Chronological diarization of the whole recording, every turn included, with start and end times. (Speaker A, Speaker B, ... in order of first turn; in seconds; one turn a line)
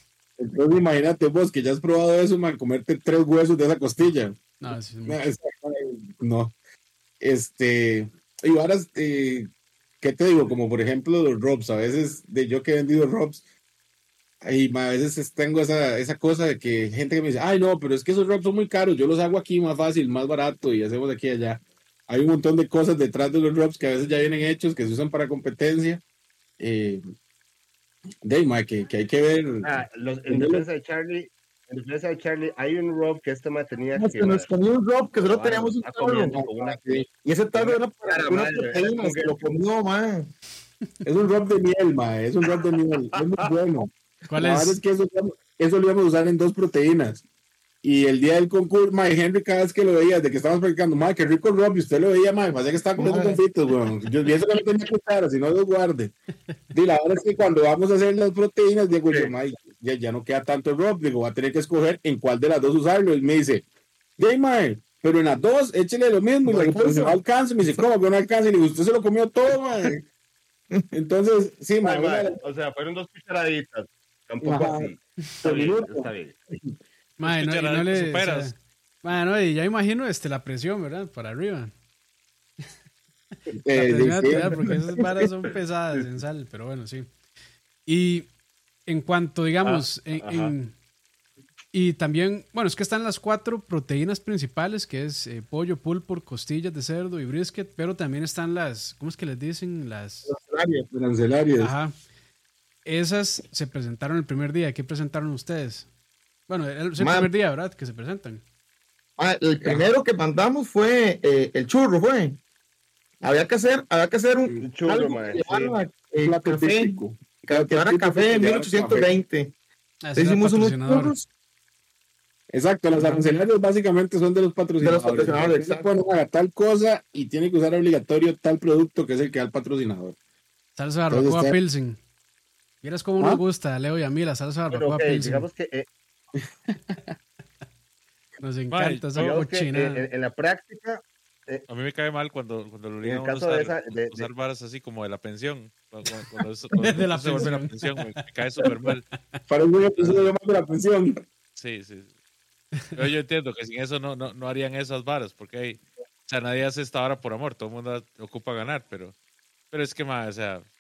Speaker A: 0.4-6.5
Speaker B: 4.6-5.2
Speaker A: 7.2-9.5
Speaker A: 10.0-13.4
Speaker A: 14.4-26.0
Speaker A: 26.6-27.0
Speaker A: 28.2-30.6
Speaker C: 29.6-34.5
Speaker D: 33.9-36.4
Speaker C: 35.2-39.5
Speaker A: 36.3-37.0
Speaker D: 37.2-40.3
Speaker A: 41.0-47.2
Speaker B: 44.3-44.8
Speaker A: 47.8-56.1
Speaker D: 53.0-53.4
Speaker A: 56.7-63.6
Speaker A: 64.2-70.0
Speaker D: 66.5-67.2
Speaker A: 70.9-72.4
Speaker C: 71.8-76.3
Speaker A: 74.4-74.9
Speaker A: 75.4-76.1
Speaker B: 77.2-81.7
Speaker E: 77.2-78.5
Speaker A: 83.5-84.7
Speaker B: 83.7-87.1
Speaker B: 87.9-88.3
Speaker B: 88.9-90.7
Speaker C: 89.6-90.5
Speaker B: 91.7-100.3
Speaker D: 100.3-100.9
Speaker A: 100.9-101.7
Speaker B: 101.5-101.9
Speaker B: 102.8-105.9
Speaker B: 106.5-108.4
Speaker D: 107.0-107.3
Speaker D: 109.2-112.4
Speaker D: 113.2-119.5
Speaker C: 114.6-115.8
Speaker A: 116.2-119.1
Speaker B: 120.0-121.1
Speaker D: 120.1-121.3
Speaker A: 122.5-130.2
Speaker D: 124.8-125.9
Speaker B: 130.8-132.0
Speaker A: 131.1-131.6
Speaker B: 132.8-135.5
Speaker C: 134.7-135.9
Speaker A: 136.7-137.1
Speaker B: 138.4-140.0
Speaker E: 138.7-139.1
Speaker C: 139.1-141.6
Speaker E: 141.7-149.1
Speaker C: 143.0-144.3
Speaker B: 146.8-149.4
Speaker A: 149.5-151.2
Speaker E: 151.6-152.1
Speaker E: 152.9-159.1
Speaker E: 159.7-160.7